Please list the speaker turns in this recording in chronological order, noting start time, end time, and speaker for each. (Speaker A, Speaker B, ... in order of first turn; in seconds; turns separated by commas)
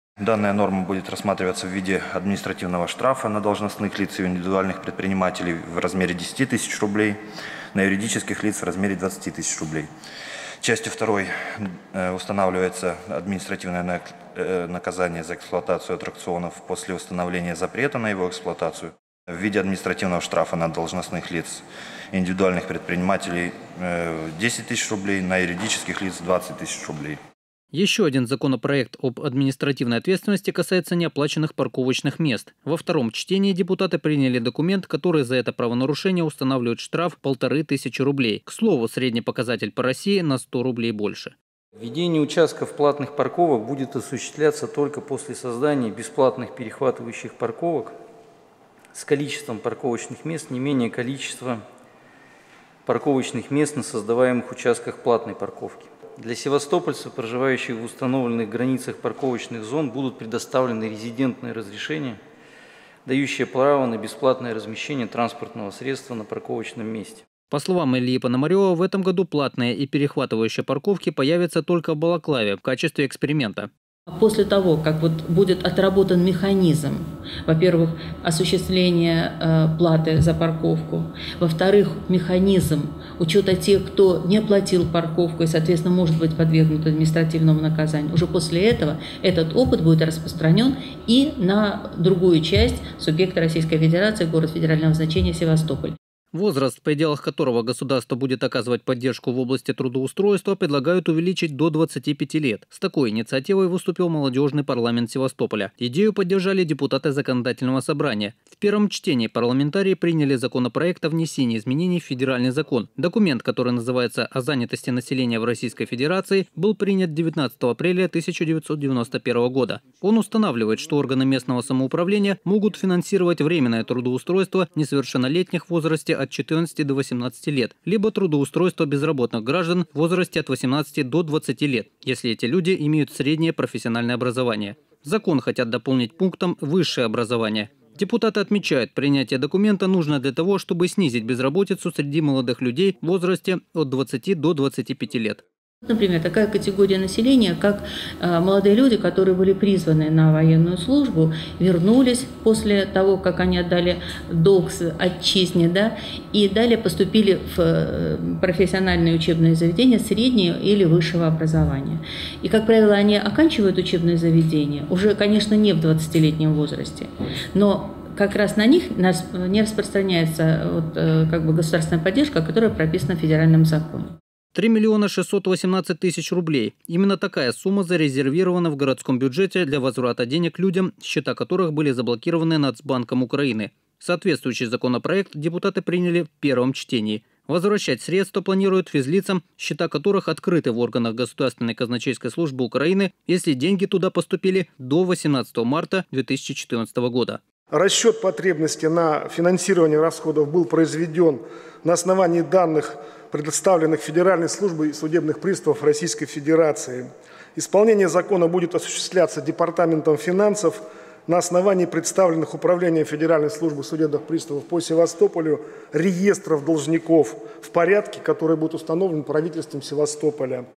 Speaker A: 0.2-7.2, Speaker A: 7.7-9.9, Speaker A: 10.6-27.2, Speaker B: 27.7-41.4, Speaker C: 41.8-48.0, Speaker C: 48.9-51.6, Speaker C: 52.9-62.2, Speaker C: 63.0-67.2, Speaker B: 67.5-73.7, Speaker D: 74.1-96.0, Speaker B: 96.3-145.4, Speaker D: 145.8-174.2, Speaker B: 174.6-197.4, Speaker E: 197.7-220.7